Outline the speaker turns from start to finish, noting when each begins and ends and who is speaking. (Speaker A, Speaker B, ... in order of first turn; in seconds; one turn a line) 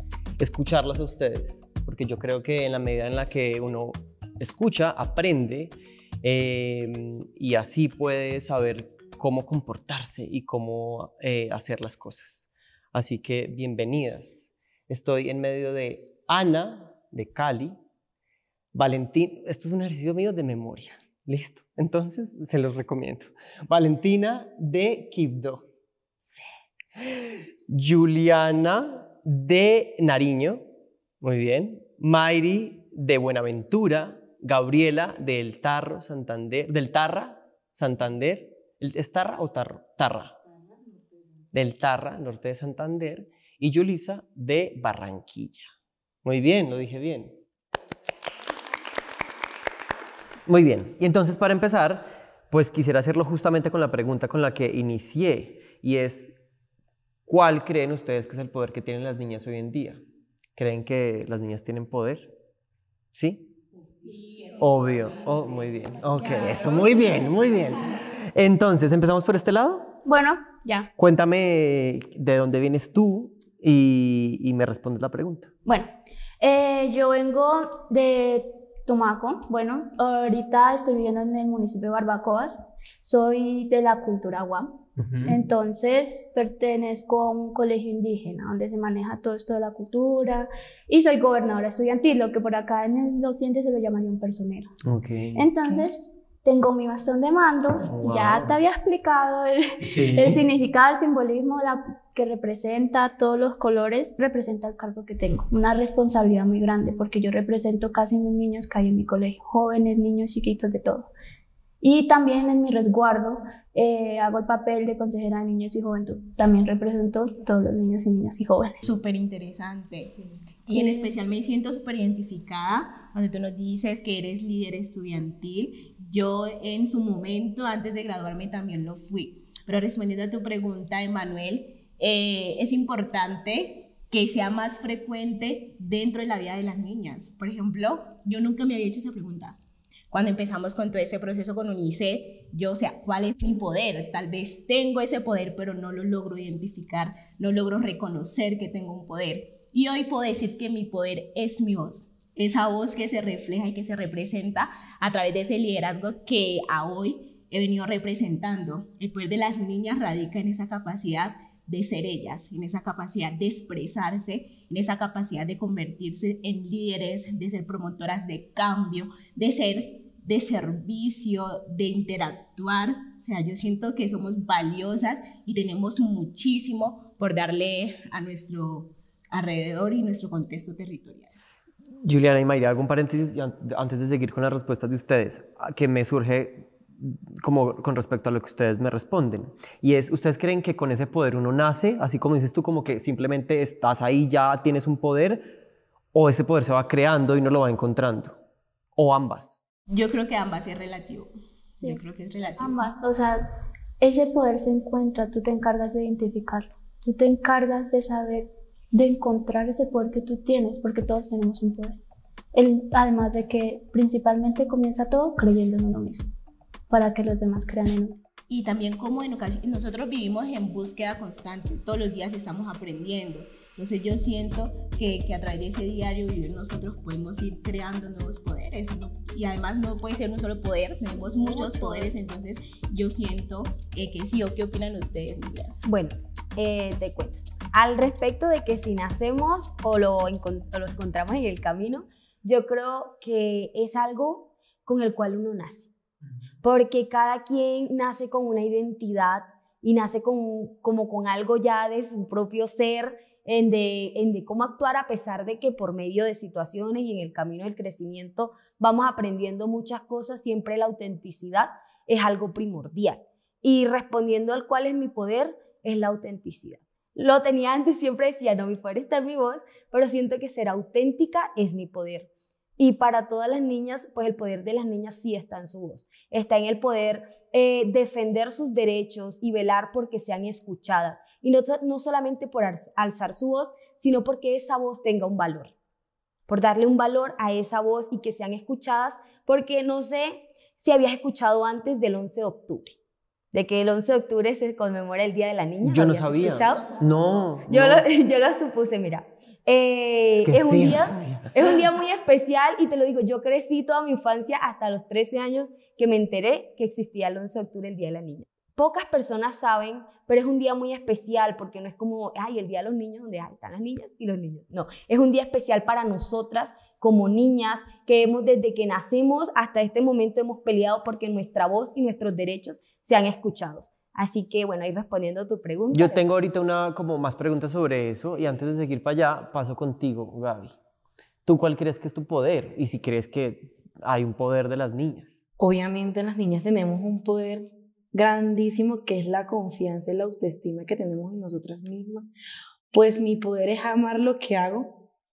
Speaker A: 0.4-17.8
Speaker A: 18.8-25.6
Speaker A: 27.0-30.6
Speaker A: 31.2-40.3
Speaker A: 41.5-45.6
Speaker A: 46.2-47.4
Speaker A: 50.5-56.4
Speaker A: 57.3-60.0
Speaker A: 60.6-62.3
Speaker A: 63.1-63.5
Speaker A: 64.6-69.9
Speaker B: 70.0-70.9
Speaker A: 71.0-75.5
Speaker B: 75.7-94.7
Speaker A: 85.0-85.4
Speaker A: 94.8-95.8
Speaker B: 95.3-111.1
Speaker A: 97.9-98.6
Speaker A: 99.9-100.4
Speaker B: 111.8-118.8
Speaker C: 118.8-120.1
Speaker C: 120.7-139.6
Speaker B: 120.7-121.1
Speaker C: 140.1-181.4
Speaker A: 182.0-195.4
Speaker A: 196.1-198.3
Speaker A: 199.0-199.6
Speaker C: 199.9-201.3
Speaker C: 201.8-202.9
Speaker B: 202.6-203.5
Speaker B: 204.0-212.0
Speaker B: 212.5-216.3
Speaker B: 216.9-218.2
Speaker C: 218.5-235.8
Speaker D: 231.6-232.1
Speaker D: 235.8-245.9
Speaker D: 246.6-285.7
Speaker D: 286.5-292.9
Speaker D: 293.5-296.9
Speaker A: 295.8-298.1
Speaker D: 297.7-326.2
Speaker A: 300.3-301.8
Speaker A: 325.9-330.7
Speaker A: 331.5-335.5
Speaker E: 335.6-337.7
Speaker E: 338.2-342.2
Speaker E: 342.9-344.9